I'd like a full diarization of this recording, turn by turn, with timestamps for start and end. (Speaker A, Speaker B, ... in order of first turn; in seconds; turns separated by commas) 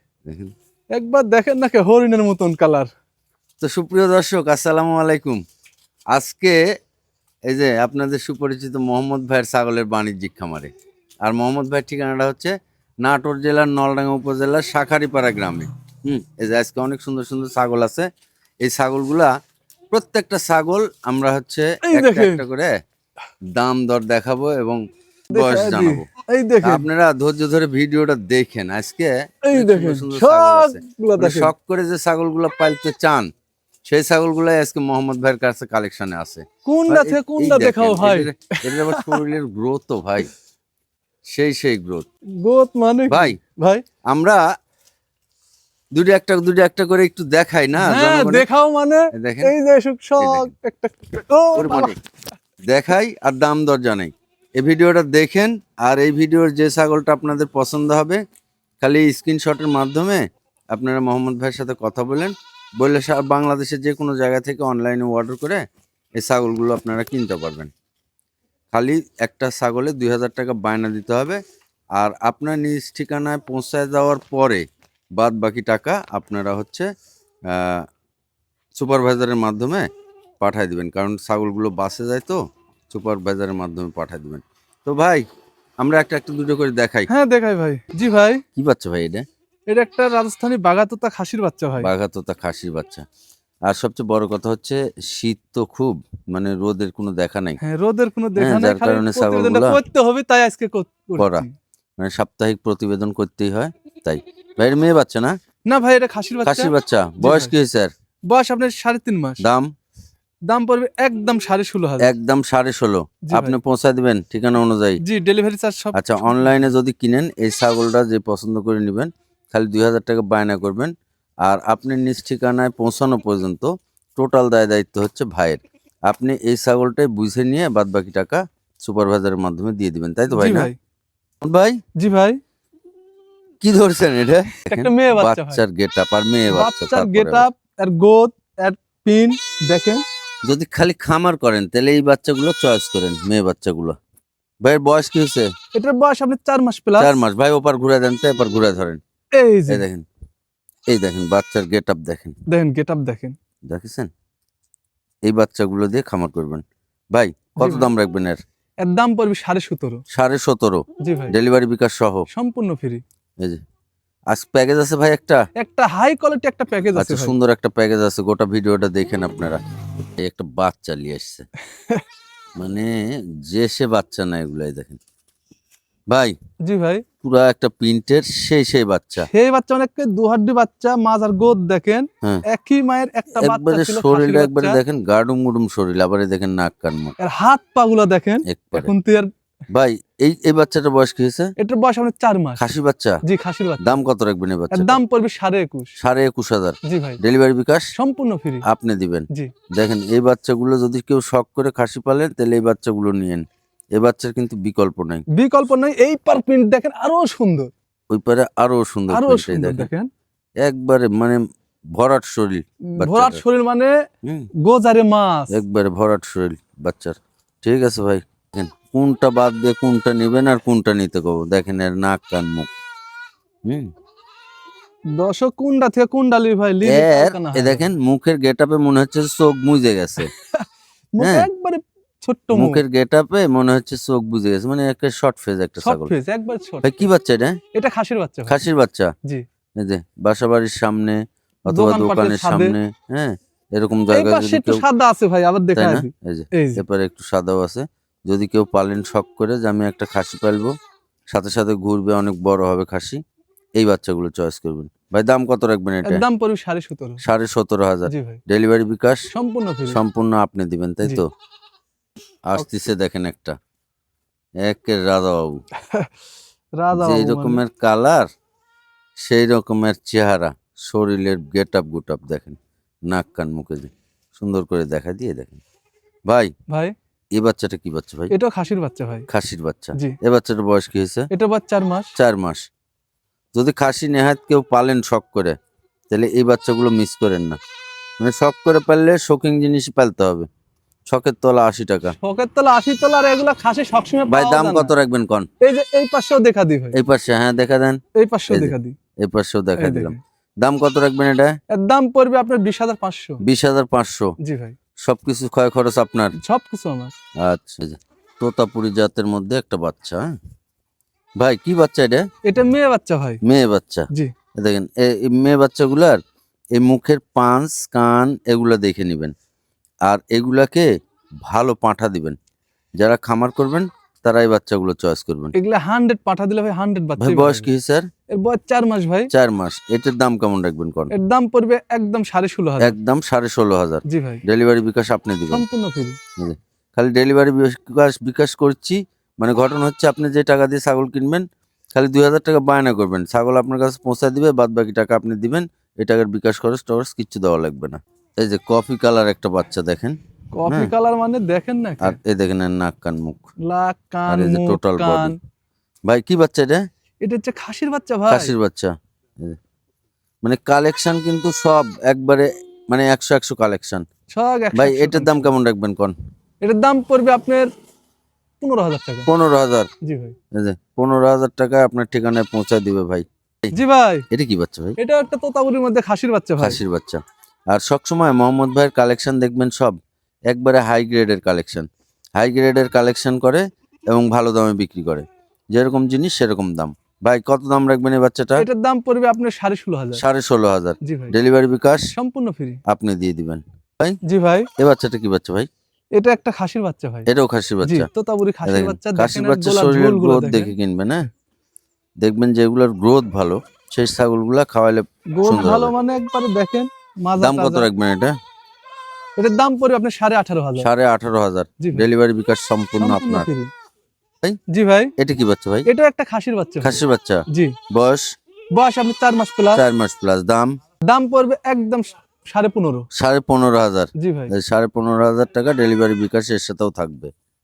Speaker A: 0.3-0.5, Speaker B: 0.9-2.9, Speaker A: 3.6-5.4, Speaker A: 6.1-6.6, Speaker A: 7.5-10.7, Speaker A: 11.2-18.1, Speaker A: 18.6-19.3, Speaker A: 19.9-22.7, Speaker B: 21.8-22.4, Speaker A: 23.5-24.8, Speaker A: 25.3-26.1, Speaker B: 25.3-26.9, Speaker A: 26.6-33.3, Speaker B: 29.4-31.5, Speaker A: 33.9-40.3, Speaker B: 36.6-39.2, Speaker A: 41.3-42.0, Speaker B: 42.4-43.8, Speaker A: 43.1-43.4, Speaker A: 44.1-44.4, Speaker A: 45.9-48.5, Speaker B: 47.8-51.9, Speaker A: 49.1-49.5, Speaker A: 50.2-50.5, Speaker A: 51.5-52.0, Speaker A: 52.7-58.2, Speaker A: 58.8-65.6, Speaker A: 66.2-67.7, Speaker A: 68.7-71.4, Speaker A: 72.0-74.6, Speaker A: 75.2-76.9, Speaker A: 77.5-77.9, Speaker A: 78.7-79.9, Speaker A: 80.4-85.2, Speaker A: 85.8-87.1, Speaker B: 87.1-88.4, Speaker A: 88.5-89.2, Speaker B: 89.7-91.9, Speaker A: 91.8-93.0, Speaker A: 93.7-97.6, Speaker B: 97.6-101.5, Speaker A: 98.4-99.8, Speaker A: 101.2-101.5, Speaker A: 102.0-105.3, Speaker B: 105.7-107.5, Speaker A: 106.4-107.9, Speaker B: 108.3-109.4, Speaker A: 109.4-109.7, Speaker B: 110.5-112.1, Speaker A: 112.0-115.0, Speaker B: 113.2-113.6, Speaker B: 115.0-116.7, Speaker A: 115.9-120.9, Speaker A: 121.4-130.7, Speaker B: 130.3-130.8, Speaker A: 131.4-131.8, Speaker B: 132.0-132.4, Speaker A: 133.6-137.5, Speaker B: 134.7-135.6, Speaker B: 136.5-140.0, Speaker A: 140.4-144.0, Speaker A: 144.6-145.5, Speaker B: 145.7-147.1, Speaker A: 147.0-149.0, Speaker B: 149.3-149.8, Speaker A: 149.7-150.1, Speaker A: 150.9-152.3, Speaker B: 152.5-153.3, Speaker A: 153.7-154.1, Speaker A: 155.2-158.4, Speaker B: 157.6-157.9, Speaker B: 158.8-160.0, Speaker A: 160.1-162.3, Speaker B: 161.0-161.3, Speaker B: 162.3-163.0, Speaker A: 164.3-165.4, Speaker B: 165.6-167.3, Speaker A: 166.9-169.6, Speaker A: 170.2-171.4, Speaker A: 172.6-175.0, Speaker B: 176.6-177.0, Speaker A: 177.2-179.3, Speaker B: 179.2-184.8, Speaker A: 183.4-187.2, Speaker B: 187.2-189.3, Speaker A: 188.4-188.9, Speaker A: 189.7-191.5, Speaker B: 191.6-192.6, Speaker A: 192.6-193.2, Speaker B: 193.2-194.0, Speaker A: 193.8-195.0, Speaker B: 194.7-195.9, Speaker A: 196.0-197.9, Speaker B: 196.8-197.2, Speaker B: 198.0-198.6, Speaker A: 198.7-203.4, Speaker A: 203.9-205.2, Speaker B: 205.3-207.7, Speaker A: 208.1-209.9, Speaker B: 209.1-210.1, Speaker A: 210.6-211.4, Speaker A: 211.9-213.4, Speaker B: 212.9-213.9, Speaker A: 214.2-214.5, Speaker B: 214.6-215.5, Speaker A: 215.5-222.7, Speaker B: 225.1-227.9, Speaker A: 226.8-230.3, Speaker B: 230.5-232.8, Speaker A: 231.2-231.5, Speaker A: 232.5-236.1, Speaker B: 235.8-237.1, Speaker A: 236.8-237.6, Speaker B: 237.7-238.6, Speaker A: 238.5-239.1, Speaker A: 239.8-244.8, Speaker B: 241.7-242.8, Speaker B: 244.1-246.8, Speaker A: 245.8-250.7, Speaker A: 251.3-253.2, Speaker A: 253.8-256.2, Speaker B: 256.0-257.2, Speaker A: 257.2-259.3, Speaker B: 258.1-258.4, Speaker B: 259.3-260.0, Speaker A: 259.9-261.2, Speaker A: 262.5-263.6, Speaker A: 264.6-265.6, Speaker B: 266.8-267.6, Speaker A: 266.9-268.3, Speaker A: 269.2-275.6, Speaker B: 276.7-276.9, Speaker A: 277.4-278.3, Speaker B: 278.3-279.3, Speaker A: 279.3-281.3, Speaker B: 281.3-282.1, Speaker A: 282.1-282.6, Speaker A: 283.5-285.6, Speaker A: 286.1-287.6, Speaker A: 288.2-290.5, Speaker A: 291.1-292.1, Speaker B: 292.1-294.9, Speaker A: 294.3-295.5, Speaker B: 295.6-296.9, Speaker A: 296.9-298.0, Speaker B: 298.1-298.9, Speaker A: 298.5-301.6, Speaker B: 299.8-300.2, Speaker B: 301.7-303.4, Speaker A: 303.4-304.3, Speaker B: 304.4-304.8, Speaker A: 305.0-306.3, Speaker B: 306.4-307.1, Speaker A: 307.4-310.2, Speaker A: 311.4-312.2, Speaker B: 312.4-313.4, Speaker A: 313.4-316.2, Speaker A: 316.8-319.3, Speaker A: 320.1-320.9, Speaker A: 321.4-322.4, Speaker A: 323.0-325.5, Speaker B: 325.5-327.7, Speaker A: 327.2-328.1, Speaker B: 328.3-329.3, Speaker A: 329.3-331.1, Speaker B: 331.1-332.9, Speaker A: 332.8-335.6, Speaker B: 334.1-334.4, Speaker B: 335.5-336.2, Speaker A: 336.4-350.9, Speaker B: 350.5-352.1, Speaker A: 352.0-353.5, Speaker B: 353.6-355.4, Speaker A: 354.3-355.3, Speaker A: 356.1-356.8, Speaker B: 357.2-358.5, Speaker A: 358.3-359.6, Speaker A: 360.4-364.0, Speaker B: 364.3-365.5, Speaker A: 364.7-366.1, Speaker B: 366.6-367.7, Speaker B: 368.6-369.3, Speaker A: 369.3-369.9, Speaker B: 370.0-370.4, Speaker A: 370.5-373.7, Speaker B: 373.7-374.2, Speaker A: 374.3-374.9, Speaker B: 375.0-376.8, Speaker A: 376.6-377.2, Speaker A: 377.7-379.9, Speaker A: 380.5-381.9, Speaker A: 382.4-388.6, Speaker B: 388.6-390.2, Speaker A: 390.1-392.1, Speaker B: 391.0-391.4, Speaker B: 392.1-392.8, Speaker A: 392.9-394.2, Speaker B: 394.2-394.7, Speaker A: 394.8-395.7, Speaker B: 396.1-397.3, Speaker A: 397.3-398.1, Speaker B: 397.8-400.8, Speaker A: 398.6-401.3, Speaker A: 402.2-405.9, Speaker B: 405.3-407.9, Speaker A: 407.4-408.3, Speaker B: 409.4-410.9, Speaker A: 410.8-413.5, Speaker B: 411.8-412.1, Speaker B: 413.0-413.7, Speaker B: 414.7-415.1, Speaker A: 415.2-415.9, Speaker B: 415.9-417.7, Speaker A: 416.8-418.3, Speaker B: 418.7-419.8, Speaker A: 419.7-420.8, Speaker B: 421.1-423.1, Speaker A: 423.1-427.3, Speaker B: 424.2-424.5